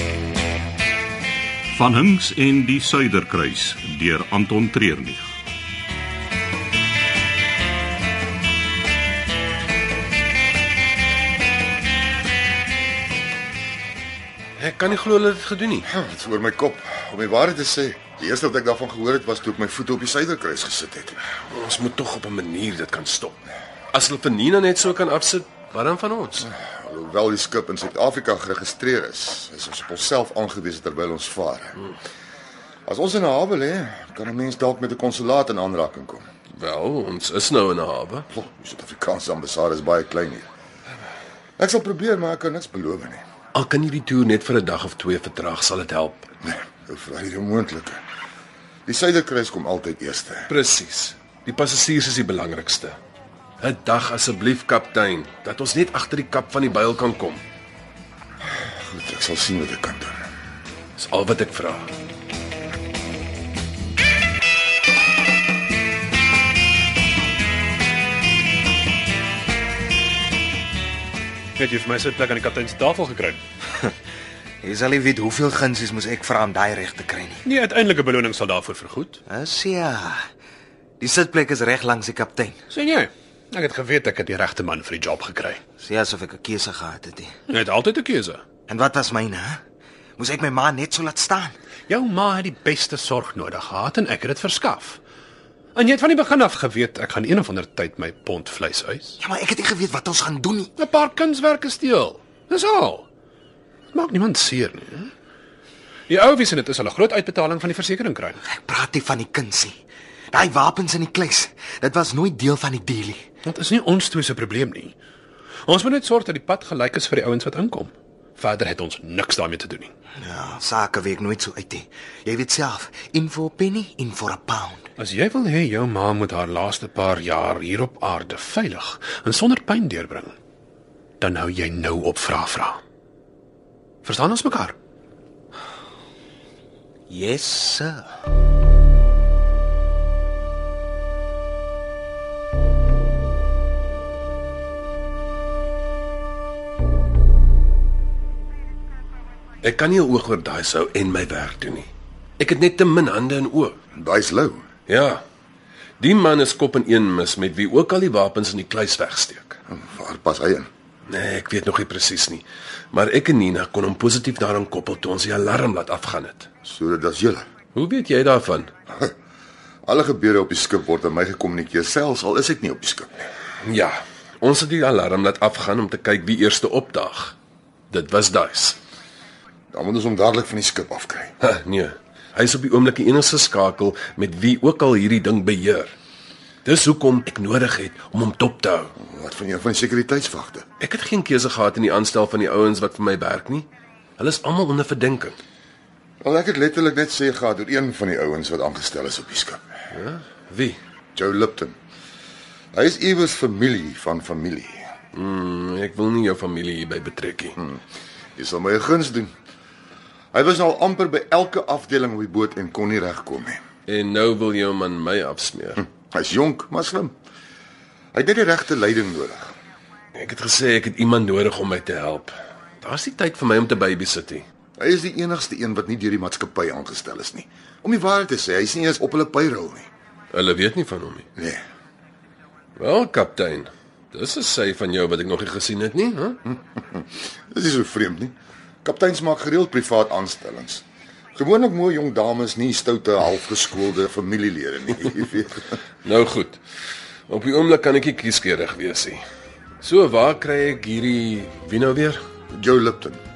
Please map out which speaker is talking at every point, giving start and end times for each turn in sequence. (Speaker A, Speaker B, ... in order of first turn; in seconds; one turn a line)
Speaker A: 1.8-5.3
Speaker B: 14.6-15.9
Speaker C: 15.9-21.2
Speaker B: 21.5-23.4
Speaker B: 23.9-26.5
Speaker C: 26.5-31.8
Speaker C: 32.9-36.3
Speaker B: 36.5-38.3
Speaker C: 38.3-40.5
Speaker C: 41.6-43.2
Speaker B: 43.5-46.3
Speaker C: 46.4-48.0
Speaker C: 48.9-50.5
Speaker B: 50.5-53.0
Speaker B: 53.6-57.4
Speaker C: 58.6-60.2
Speaker B: 61.0-61.9
Speaker D: 71.6-73.4
Speaker E: 74.6-77.4
Speaker D: 77.4-79.2
Speaker E: 79.3-80.2
Speaker E: 81.0-82.6
Speaker D: 82.7-85.6
Speaker E: 85.8-87.3
Speaker D: 87.5-88.4
Speaker E: 88.7-89.6
Speaker E: 90.2-91.5
Speaker D: 91.9-95.0
Speaker D: 95.8-99.2
Speaker E: 99.2-100.7
Speaker D: 100.8-103.1
Speaker D: 103.9-105.1
Speaker D: 106.1-108.4
Speaker E: 108.5-109.8
Speaker E: 110.3-113.2
Speaker D: 113.5-115.0
Speaker D: 115.7-119.9
Speaker E: 120.2-124.9
Speaker D: 125.0-130.4
Speaker D: 131.2-132.8
Speaker D: 134.0-134.8
Speaker E: 137.1-138.1
Speaker B: 149.6-153.8
Speaker C: 153.9-154.7
Speaker B: 154.9-155.2
Speaker B: 156.0-159.6
Speaker C: 159.7-160.7
Speaker B: 161.1-166.5
Speaker C: 166.7-167.4
Speaker B: 167.7-168.7
Speaker C: 169.8-173.2
Speaker B: 173.6-177.3
Speaker B: 177.9-178.8
Speaker C: 179.7-181.3
Speaker B: 181.4-185.9
Speaker B: 186.7-188.9
Speaker C: 189.0-190.7
Speaker B: 190.8-195.4
Speaker C: 196.2-199.7
Speaker B: 199.9-200.8
Speaker C: 201.2-201.8
Speaker C: 202.7-204.9
Speaker B: 205.1-207.6
Speaker C: 207.6-207.8
Speaker C: 208.4-209.3
Speaker C: 210.3-213.6
Speaker B: 213.9-215.8
Speaker C: 216.0-217.1
Speaker C: 218.1-219.5
Speaker B: 220.2-224.4
Speaker C: 224.8-229.9
Speaker B: 230.3-231.3
Speaker C: 231.4-231.6
Speaker B: 232.8-236.4
Speaker C: 236.9-240.8
Speaker C: 241.3-245.7
Speaker B: 246.0-246.6
Speaker B: 247.3-249.2
Speaker B: 249.8-252.2
Speaker C: 252.5-253.2